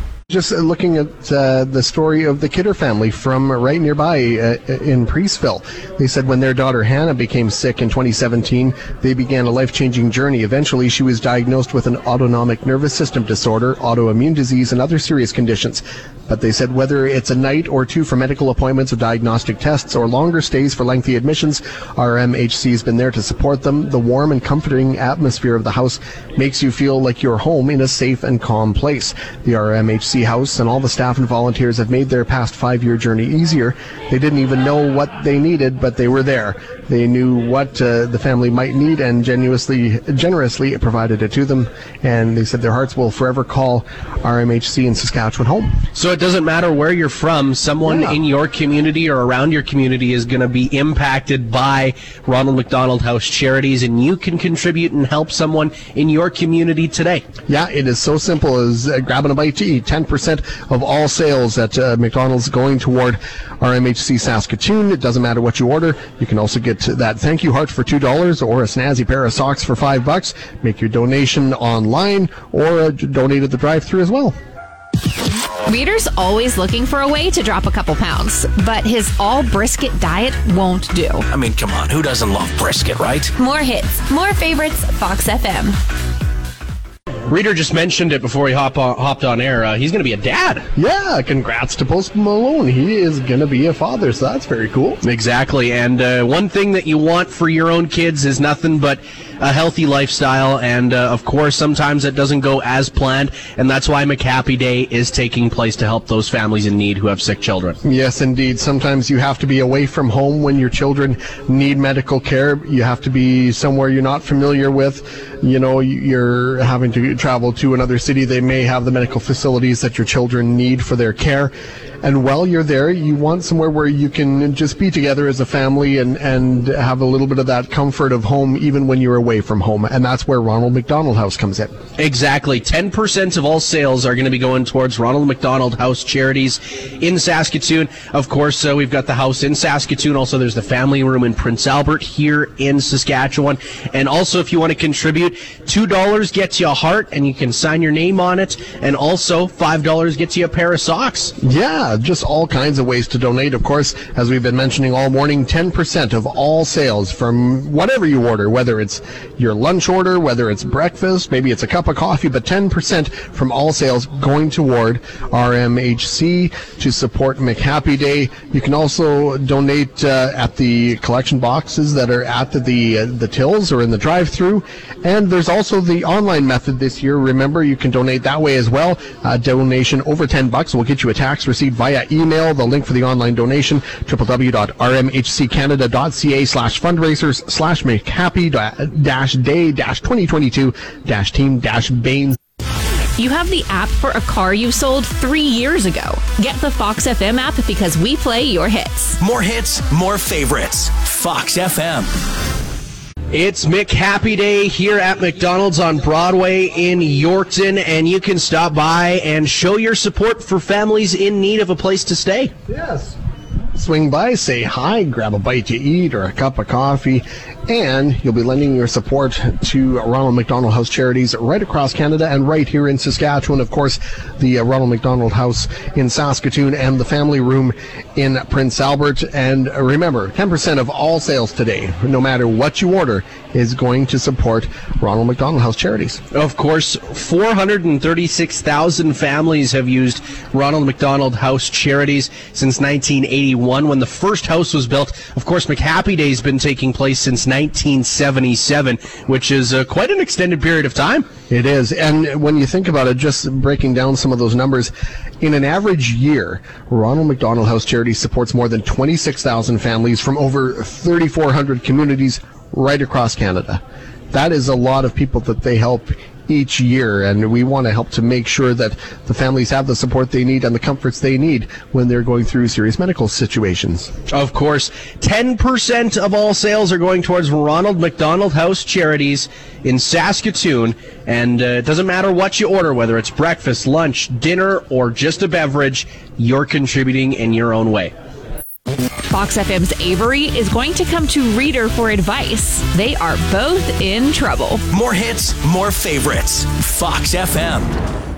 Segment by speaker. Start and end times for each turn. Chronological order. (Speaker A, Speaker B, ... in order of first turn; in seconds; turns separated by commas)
Speaker A: 0.3-45.8, Speaker B: 45.9-57.2, Speaker A: 47.8-48.2, Speaker A: 57.5-74.3, Speaker C: 75.7-81.2, Speaker D: 81.3-83.3, Speaker E: 83.3-85.8, Speaker B: 87.3-90.7, Speaker A: 90.8-95.0, Speaker B: 95.0-107.8, Speaker A: 107.8-131.7, Speaker B: 132.0-151.3, Speaker A: 151.4-192.4, Speaker C: 193.2-199.2, Speaker D: 199.2-202.1, Speaker B: 203.3-212.5, Speaker A: 212.7-213.1, Speaker A: 213.7-236.2, Speaker B: 236.3-251.3, Speaker A: 251.5-274.1, Speaker B: 274.3-288.1, Speaker C: 289.3-294.8, Speaker D: 294.9-298.0